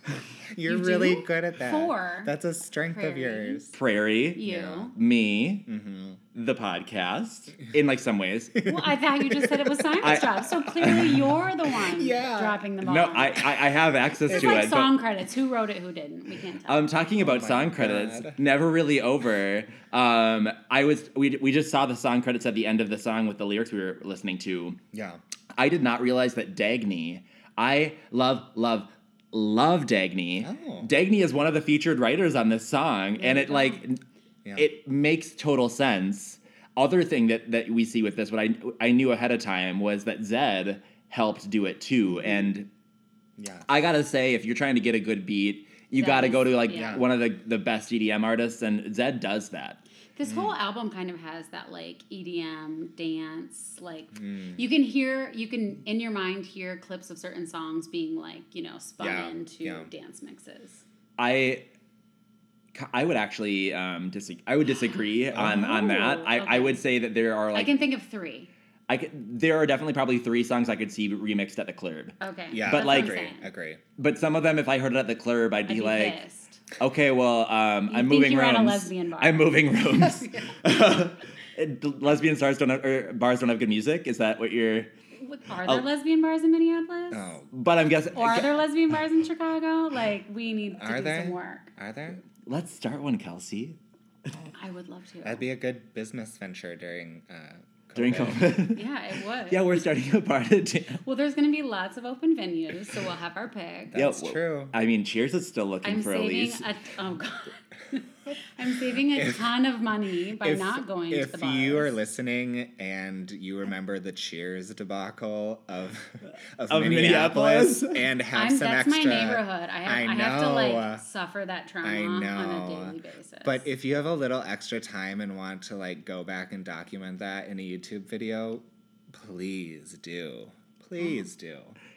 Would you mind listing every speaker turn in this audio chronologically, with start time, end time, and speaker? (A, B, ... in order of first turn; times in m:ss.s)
0:00.5-0:03.8 A
0:00.7-0:02.3 B
0:02.9-0:03.7 B
0:03.7-0:05.6 C
0:04.4-0:04.9 B
0:04.5-0:04.9 A
0:05.7-0:06.2 A
0:06.3-0:08.7 C
0:08.6-0:10.2 A
0:08.6-0:13.4 B
0:10.0-0:11.4 C
0:11.8-0:12.6 A
0:12.8-0:15.0 C
0:14.3-0:16.9 B
0:14.3-0:14.7 A
0:16.7-0:24.8 C
0:17.2-0:18.4 A
0:24.9-0:25.2 A
0:25.6-0:34.0 C
0:30.4-0:30.9 A
0:33.2-0:33.8 B
0:34.6-0:42.7 C
0:43.4-0:43.7 A
0:43.7-0:49.8 C
0:46.0-0:47.0 B
0:46.7-0:47.1 A
0:50.2-1:00.8 B
0:50.2-0:50.6 A
0:54.2-0:54.6 A
0:59.0-0:59.9 A
1:01.2-1:01.6 C
1:02.7-1:07.7 C
1:05.4-1:05.7 A
1:05.4-1:06.8 B
1:07.5-1:08.5 B
1:08.9-1:13.2 C
1:12.2-1:13.5 B
1:12.5-1:13.8 A
1:14.0-1:16.2 C
1:15.7-1:16.6 B
1:16.8-1:24.9 C
1:17.9-1:20.6 B
1:25.2-1:27.3 B
1:27.1-1:27.5 A
1:27.5-1:28.5 C
1:28.2-1:31.7 B
1:30.8-1:32.2 A
1:32.4-1:33.8 C
1:34.5-1:35.4 B
1:35.2-1:38.5 A
1:38.0-1:38.9 C
1:38.7-1:39.9 B
1:39.5-1:41.0 C
1:41.0-1:44.0 B
1:43.9-1:44.7 A
1:43.9-1:46.6 C
1:45.8-1:51.9 B
1:49.1-1:49.5 A
1:50.4-2:01.0 A
1:56.7-1:58.0 C
1:58.3-2:03.6 B
2:01.8-2:11.8 A